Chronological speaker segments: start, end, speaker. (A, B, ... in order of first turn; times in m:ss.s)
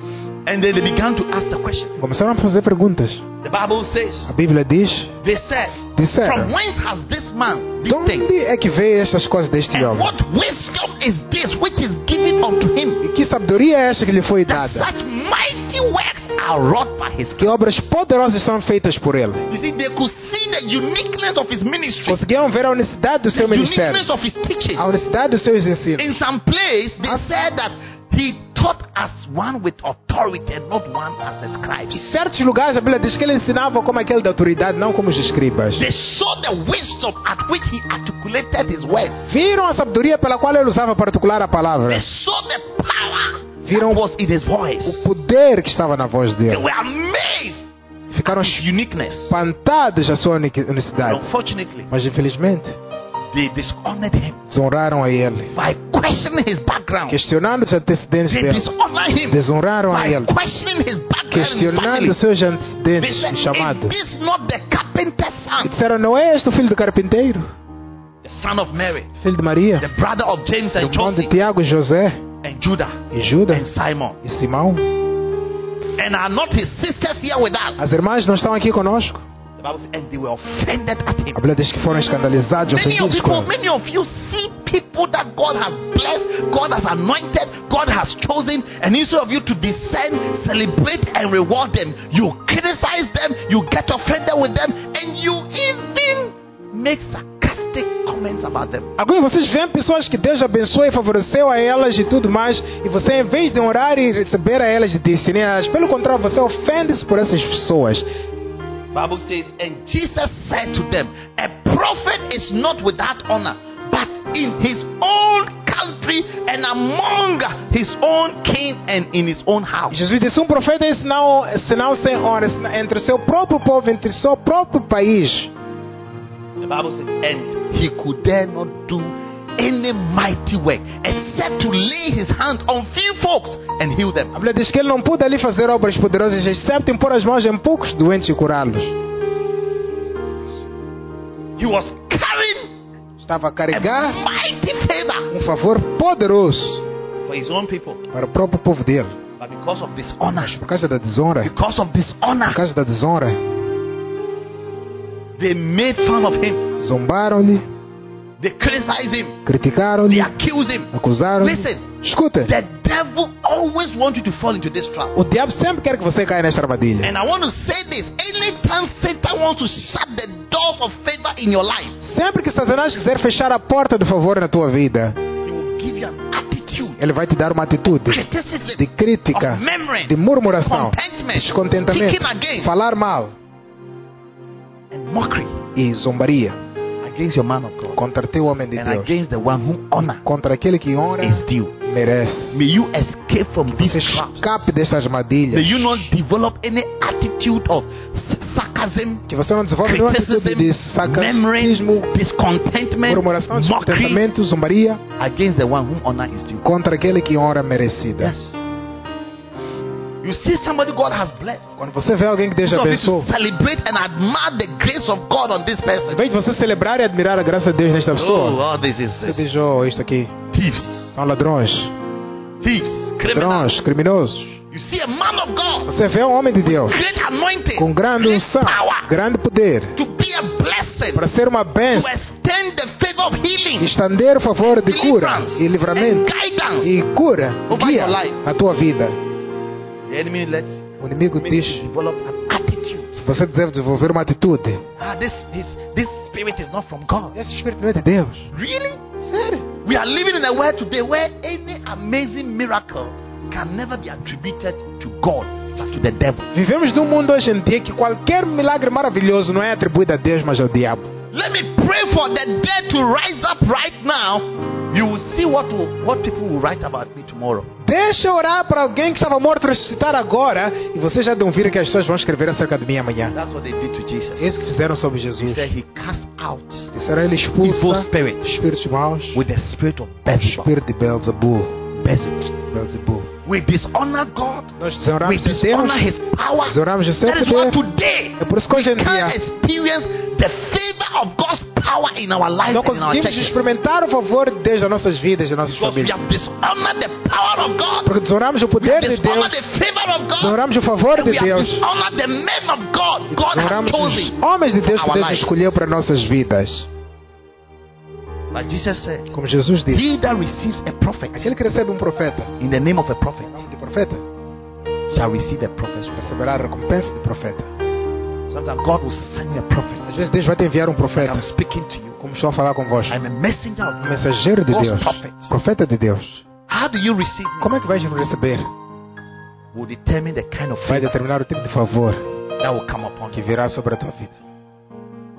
0:00.5-0:02.0 A
0:02.0-0:03.2 B
0:03.4-0:04.3 A
0:04.3-0:05.2 B
0:05.2-0:08.3 A
0:05.9-0:06.6 B
0:07.9-0:10.1 B
0:09.7-0:13.0 A
0:13.0-0:14.9 B
0:14.5-0:17.5 A
0:17.4-0:19.5 B
0:19.5-0:22.2 A
0:22.1-0:24.1 B
0:23.3-0:24.8 A
0:24.8-0:26.2 B
0:26.0-0:32.1 A
0:31.9-0:35.9 B
0:35.8-0:39.3 A
0:39.3-0:42.0 B
0:41.9-0:45.1 A
0:43.6-0:44.1 B
0:44.8-0:46.7 B
0:46.5-0:47.7 A
0:48.1-0:48.7 B
0:48.2-0:49.4 A
0:49.3-0:51.3 B
0:51.0-0:51.9 A
0:51.9-0:52.8 B
0:53.3-0:54.4 A
0:54.5-0:55.5 B
0:55.5-0:57.2 A
0:57.1-0:58.7 B
0:58.3-1:02.2 A
0:59.3-1:00.3 B
1:01.3-1:04.0 B
1:03.0-1:05.7 A
1:05.6-1:07.5 B
1:08.2-1:09.1 A
1:09.2-1:09.9 B
1:09.8-1:11.3 A
1:10.8-1:12.2 B
1:12.4-1:14.2 A
1:13.1-1:13.7 B
1:14.2-1:14.9 B
1:16.0-1:17.9 A
1:17.8-1:19.2 B
1:19.6-1:21.4 A
1:21.4-1:23.5 B
1:22.7-1:38.9 A
1:39.0-1:48.1 B
1:48.9-2:00.0 A
1:59.9-2:05.5 B
2:06.6-2:14.3 A
2:14.3-2:19.0 B
2:21.6-2:22.7 A
2:23.2-2:24.2 B
2:23.7-2:25.3 A
2:25.3-2:26.8 B
2:27.2-2:28.0 A
2:28.1-2:29.1 B
2:29.4-2:30.6 A
2:30.3-2:31.5 B
2:31.4-2:32.6 A
2:32.5-2:33.4 B
2:35.4-2:36.7 A
2:36.8-2:37.6 B
2:38.4-2:39.4 A
2:39.4-2:40.3 B
2:40.1-2:41.9 A
2:40.9-2:42.5 B
2:42.4-2:45.2 A
2:45.1-2:47.1 B
2:47.0-2:52.0 A
2:52.0-2:55.2 B
2:55.4-2:57.0 A
2:57.0-3:03.4 B
2:58.1-3:02.7 A
3:04.9-3:05.6 A
3:05.8-3:06.6 B
3:07.0-3:08.0 A
3:08.0-3:09.2 B
3:08.8-3:10.2 A
3:10.2-3:12.7 B
3:11.2-3:11.8 A
3:12.5-3:14.7 A
3:13.7-3:16.1 B
3:15.5-3:19.3 A
3:19.3-3:22.1 B
3:19.8-3:24.2 A
3:23.1-3:25.0 B
3:25.2-3:26.7 A
3:26.6-3:28.4 B
3:28.2-3:28.6 A
3:30.2-3:31.8 A
3:31.8-3:33.3 B
3:32.6-3:36.2 A
3:36.1-3:38.6 B
3:38.1-3:39.6 A
3:39.2-3:40.3 B
3:40.5-3:41.1 A
3:41.1-3:41.9 B
3:42.6-3:43.7 A
3:43.3-3:44.6 B
3:44.7-3:45.9 A
3:45.9-3:47.0 B
3:46.6-3:49.1 A
3:47.8-3:50.0 B
3:50.0-3:51.2 A
3:51.1-3:52.1 B
3:51.9-3:53.9 A
3:53.8-3:59.2 B
3:54.7-3:56.9 A
3:57.7-3:58.4 A
4:00.1-4:03.2 A
4:01.0-4:01.9 B
4:03.2-4:04.8 B
4:05.0-4:07.4 A
4:07.4-4:08.5 B
4:08.5-4:16.5 A
4:09.3-4:09.6 B
4:16.5-4:21.1 B
4:21.3-4:27.7 A
4:27.8-4:33.4 B
4:33.3-4:34.6 A
4:34.4-4:35.7 B
4:35.4-4:36.9 A
4:36.9-4:39.5 B
4:37.6-4:38.6 A
4:39.3-4:40.7 A
4:40.3-4:41.8 B
4:42.0-4:42.6 A
4:42.6-4:43.3 B
4:43.4-4:53.7 A
4:44.8-4:46.1 B
4:46.7-4:47.8 B
4:48.4-4:49.4 B
4:52.7-4:56.2 B
4:55.6-4:58.1 A
4:58.0-4:59.6 B
4:58.8-5:00.6 A
5:00.4-5:01.9 B
5:01.1-5:05.8 A
5:03.3-5:06.9 B
5:08.5-5:09.3 A
5:09.3-5:10.1 B
5:09.9-5:11.5 A
5:11.3-5:12.5 B
5:12.6-5:13.6 A
5:13.5-5:14.2 B
5:15.1-5:16.5 A
5:16.1-5:17.7 B
5:18.5-5:20.2 A
5:20.1-5:21.5 B
5:21.1-5:22.2 A
5:22.2-5:23.2 B
5:23.1-5:25.5 A
5:24.0-5:26.4 B
5:26.7-5:27.8 A
5:27.6-5:28.7 B
5:29.7-5:31.1 A
5:30.8-5:32.2 B
5:32.6-5:33.5 A
5:33.3-5:34.4 B